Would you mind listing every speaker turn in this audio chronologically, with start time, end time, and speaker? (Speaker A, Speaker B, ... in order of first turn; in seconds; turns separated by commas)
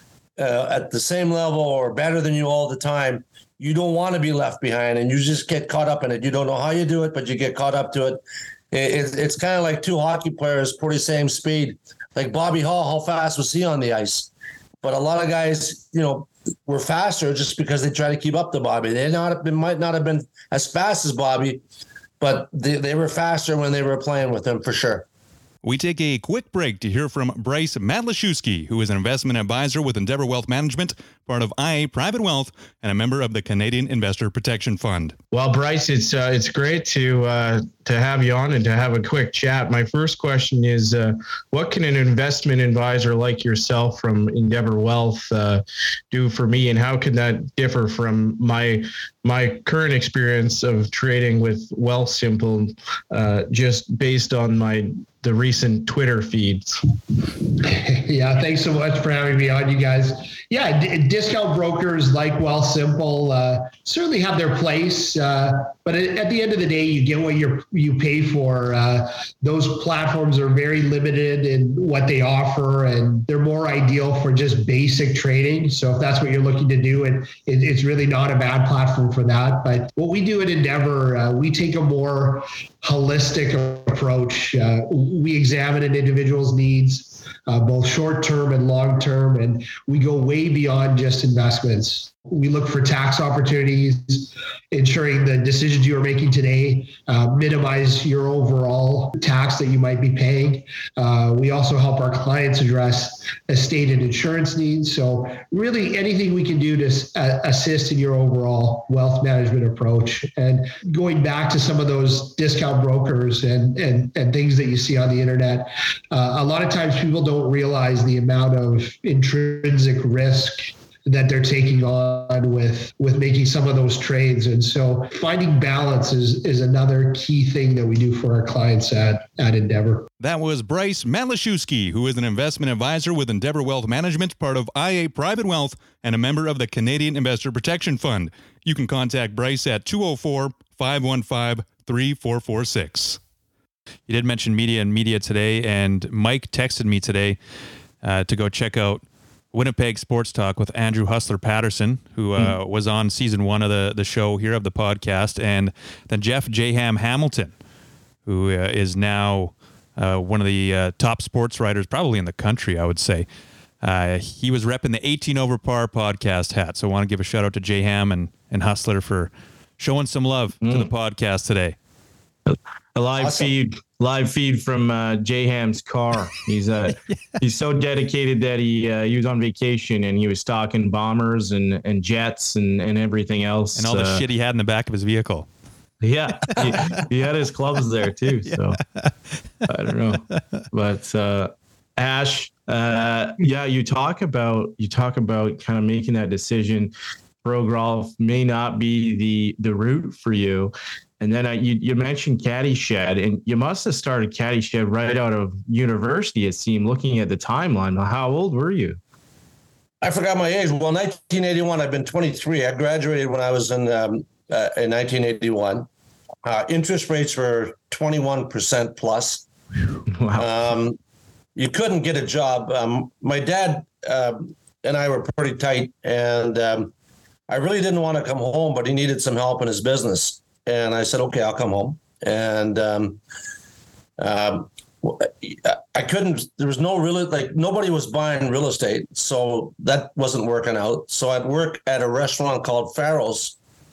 Speaker A: 0.4-14.3, Speaker A: 14.8-21.6, Speaker A: 22.2-25.1, Speaker B: 25.6-35.2, Speaker C: 35.3-56.8, Speaker D: 57.6-130.1, Speaker B: 130.2-143.2, Speaker B: 144.1-147.4, Speaker B: 148.0-157.5, Speaker B: 158.3-163.3, Speaker B: 163.8-171.8, Speaker C: 170.6-170.9, Speaker C: 172.5-184.2, Speaker A: 173.2-173.5, Speaker B: 183.8-185.5, Speaker C: 186.0-188.8, Speaker B: 186.4-186.9, Speaker B: 188.5-189.1, Speaker C: 189.7-196.9, Speaker C: 197.4-209.0, Speaker A: 210.0-215.9, Speaker A: 216.4-219.4, Speaker C: 220.1-220.5, Speaker A: 220.4-221.0, Speaker A: 221.6-226.9, Speaker A: 227.5-233.2, Speaker A: 234.2-243.6